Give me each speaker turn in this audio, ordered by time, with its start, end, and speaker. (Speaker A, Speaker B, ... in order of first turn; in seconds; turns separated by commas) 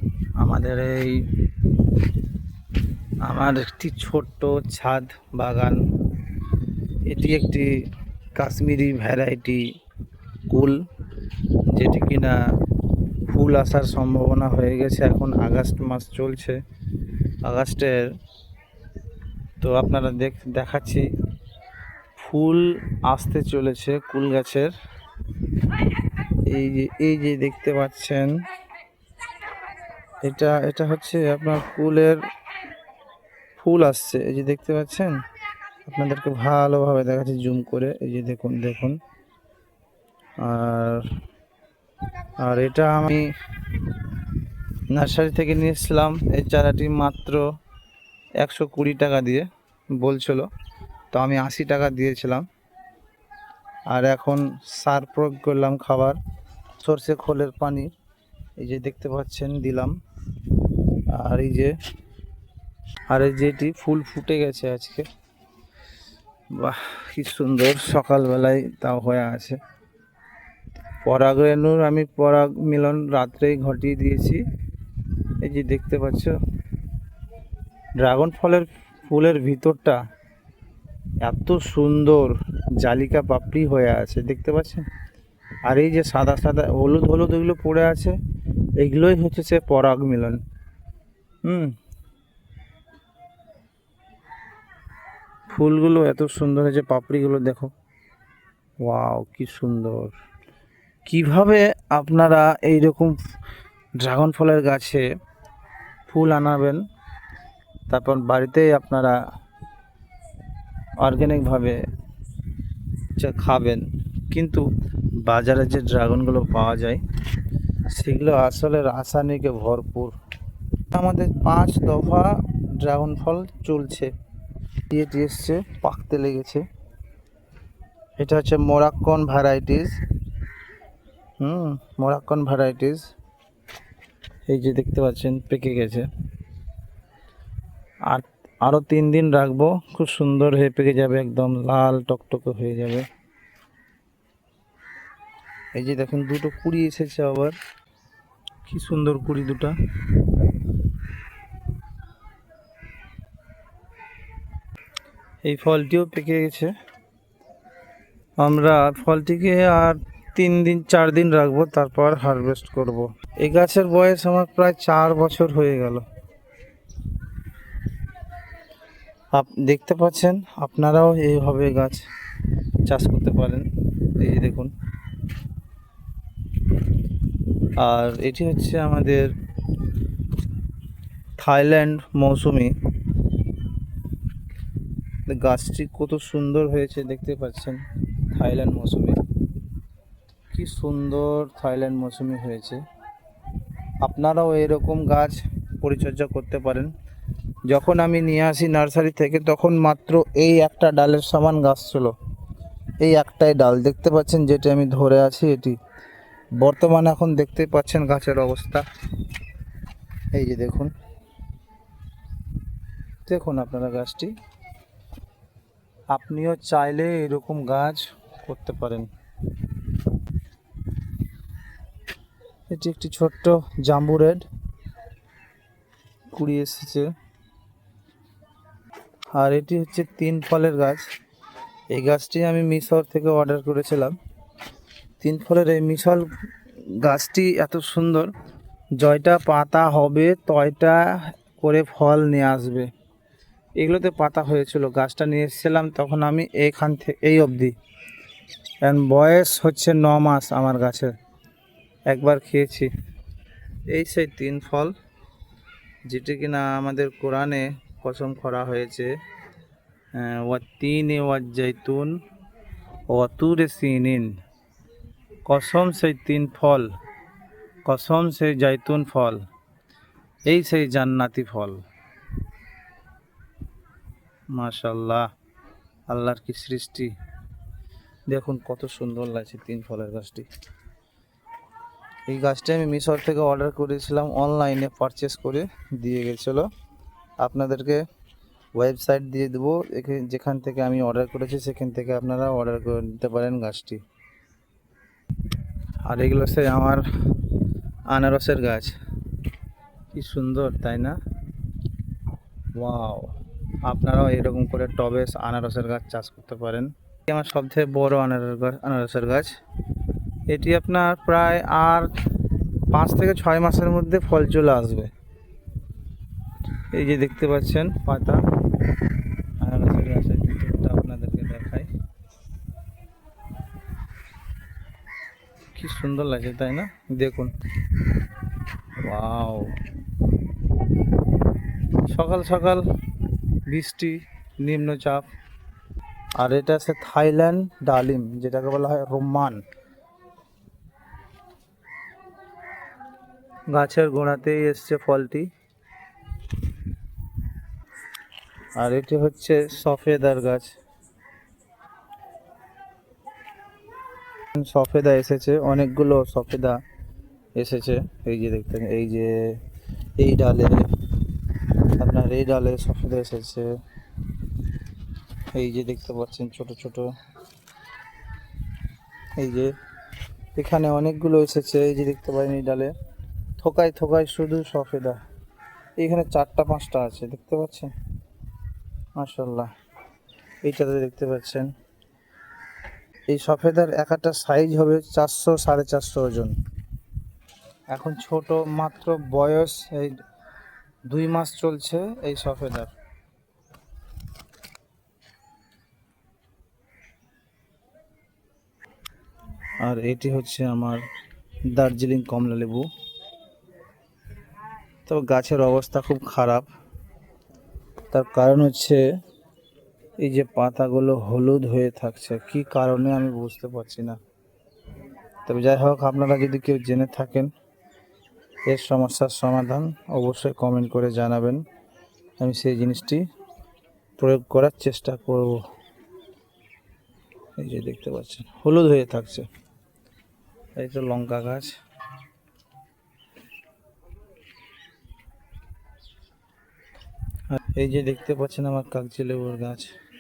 Speaker A: 0.4-1.3, Speaker A: 3.2-5.8, Speaker A: 7.1-7.8, Speaker A: 8.4-9.7, Speaker A: 10.5-10.8, Speaker A: 11.7-12.4, Speaker A: 13.3-16.6, Speaker A: 17.4-18.1, Speaker A: 19.6-21.1, Speaker A: 22.2-24.7, Speaker A: 26.5-28.4, Speaker A: 30.2-32.2, Speaker A: 33.6-35.2, Speaker A: 35.9-39.0, Speaker A: 40.4-41.0, Speaker A: 42.4-43.3, Speaker A: 44.9-47.4, Speaker A: 48.4-50.5, Speaker A: 51.1-52.5, Speaker A: 53.9-56.2, Speaker A: 56.8-57.9, Speaker A: 58.6-60.0, Speaker A: 61.1-61.8, Speaker A: 63.1-65.1, Speaker A: 66.5-69.6, Speaker A: 71.0-74.4, Speaker A: 75.4-76.4, Speaker A: 78.0-80.0, Speaker A: 81.2-84.9, Speaker A: 85.7-88.2, Speaker A: 88.8-90.4, Speaker A: 91.4-91.8, Speaker A: 95.5-97.7, Speaker A: 98.8-100.2, Speaker A: 101.1-103.2, Speaker A: 104.0-105.1, Speaker A: 106.1-106.8, Speaker A: 107.9-109.2, Speaker A: 111.0-111.8, Speaker A: 113.2-114.7, Speaker A: 115.2-117.0, Speaker A: 117.9-120.1, Speaker A: 120.9-124.1, Speaker A: 124.9-126.6, Speaker A: 128.2-130.0, Speaker A: 131.4-133.0, Speaker A: 134.5-136.1, Speaker A: 138.1-143.1, Speaker A: 145.7-147.6, Speaker A: 148.7-149.8, Speaker A: 155.4-156.7, Speaker A: 158.4-166.1, Speaker A: 169.3-172.1, Speaker A: 172.8-173.7, Speaker A: 174.2-174.7, Speaker A: 177.8-179.3, Speaker A: 181.4-182.8, Speaker A: 185.3-189.2, Speaker A: 190.5-192.8, Speaker A: 194.0-196.9, Speaker A: 197.7-202.2, Speaker A: 203.0-205.8, Speaker A: 206.6-208.9, Speaker A: 210.3-210.9, Speaker A: 213.3-214.3, Speaker A: 216.1-219.1, Speaker A: 222.7-224.4, Speaker A: 226.3-227.1, Speaker A: 229.3-231.1, Speaker A: 231.9-234.2, Speaker A: 235.2-236.3, Speaker A: 237.0-238.3, Speaker A: 239.0-242.9, Speaker A: 243.8-247.8, Speaker A: 248.8-251.1, Speaker A: 252.1-252.9, Speaker A: 253.9-254.9, Speaker A: 256.1-259.1, Speaker A: 260.1-262.1, Speaker A: 263.1-264.4, Speaker A: 265.5-266.9, Speaker A: 267.9-269.4, Speaker A: 270.5-271.8, Speaker A: 274.5-275.3, Speaker A: 276.1-277.1, Speaker A: 278.3-280.5, Speaker A: 282.3-286.7, Speaker A: 287.4-288.0, Speaker A: 288.8-294.0, Speaker A: 296.0-297.5, Speaker A: 298.1-299.0, Speaker A: 300.1-301.2, Speaker A: 302.8-309.5, Speaker A: 310.5-312.2, Speaker A: 312.9-315.1, Speaker A: 316.9-318.4, Speaker A: 319.6-321.9, Speaker A: 325.8-327.5, Speaker A: 329.0-329.8, Speaker A: 332.1-332.9, Speaker A: 333.7-335.3, Speaker A: 336.4-339.6, Speaker A: 343.7-345.5, Speaker A: 348.8-350.7, Speaker A: 354.5-356.8, Speaker A: 357.6-359.6, Speaker A: 360.2-360.9, Speaker A: 361.9-363.7, Speaker A: 365.5-367.1, Speaker A: 369.4-369.8, Speaker A: 370.6-372.9, Speaker A: 373.6-375.2, Speaker A: 376.0-377.9, Speaker A: 379.2-379.7, Speaker A: 380.6-381.7, Speaker A: 383.3-386.6, Speaker A: 387.9-390.2, Speaker A: 391.1-392.9, Speaker A: 399.8-401.0, Speaker A: 401.7-402.9, Speaker A: 405.1-406.7, Speaker A: 408.1-409.0, Speaker A: 410.2-414.2, Speaker A: 415.4-417.5, Speaker A: 418.7-421.6, Speaker A: 422.4-423.2, Speaker A: 424.2-425.6, Speaker A: 427.6-429.4, Speaker A: 430.8-431.8, Speaker A: 437.5-439.9